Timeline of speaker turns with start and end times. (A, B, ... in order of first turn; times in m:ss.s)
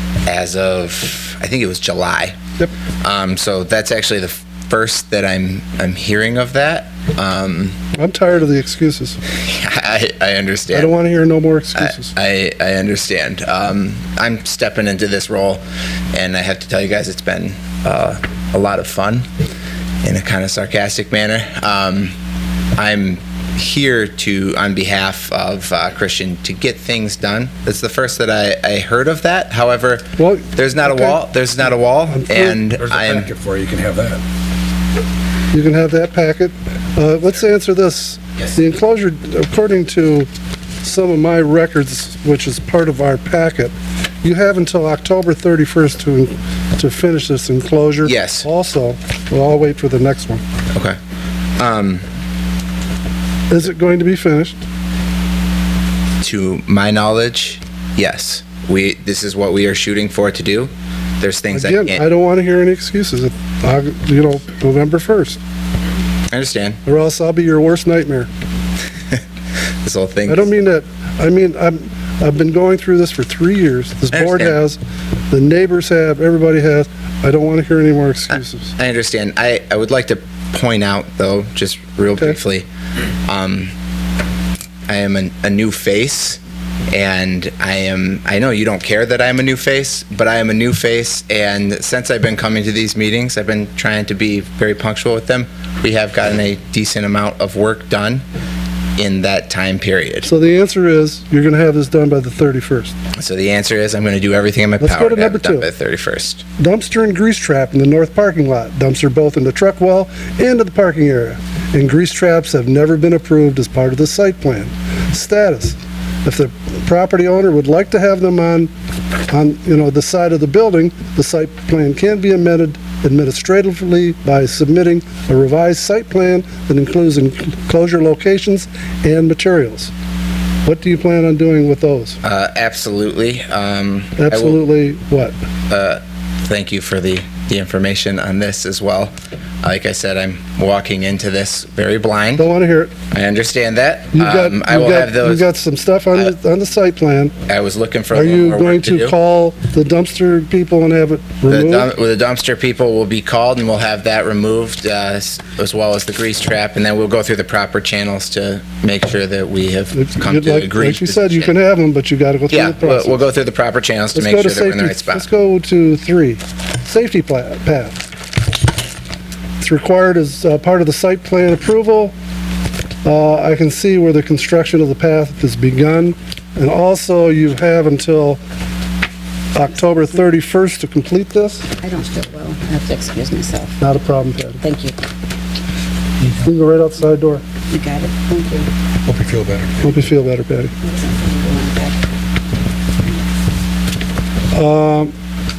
0:00.2-0:02.4 A
0:03.0-0:07.8 A
0:07.9-0:09.2 B
0:09.3-0:10.9 A
0:10.7-0:12.1 B
0:11.8-0:15.6 A
0:16.1-0:19.3 A
0:20.0-0:22.1 A
0:22.8-0:33.3 A
0:30.2-0:31.2 B
0:32.1-0:32.6 B
0:32.8-0:34.2 C
0:35.5-0:40.3 B
0:40.8-0:50.4 B
0:48.0-0:48.5 A
0:51.6-0:52.0 A
0:53.5-0:54.6 B
0:56.2-1:02.0 A
1:01.5-1:05.4 B
1:06.3-1:06.8 A
1:06.8-1:08.3 B
1:09.8-1:10.5 A
1:10.3-1:14.8 B
1:14.1-1:14.6 A
1:15.3-1:18.7 B
1:18.8-1:22.6 A
1:23.3-1:23.7 A
1:24.9-1:38.2 A
1:39.0-1:40.3 A
1:40.2-1:42.9 B
1:43.2-1:46.4 A
1:44.8-1:45.7 B
1:46.6-1:58.7 B
1:59.3-2:09.9 B
2:10.6-2:12.2 B
2:12.2-2:14.6 A
2:14.2-2:15.3 B
2:15.7-2:22.4 A
2:22.4-2:22.9 B
2:23.1-2:25.4 A
2:24.1-2:27.3 B
2:27.5-2:29.1 A
2:28.1-2:31.9 B
2:31.5-2:41.5 A
2:39.9-2:43.2 B
2:42.5-2:45.2 A
2:44.1-2:48.1 B
2:49.6-2:52.1 B
2:53.0-2:58.4 B
2:59.5-3:01.7 B
3:01.8-3:03.8 D
3:03.8-3:04.6 B
3:04.6-3:05.0 D
3:06.4-3:07.4 B
3:07.7-3:08.7 D
3:09.0-3:09.9 C
3:09.8-3:10.7 B
3:10.8-3:12.0 D
3:14.5-3:15.1 B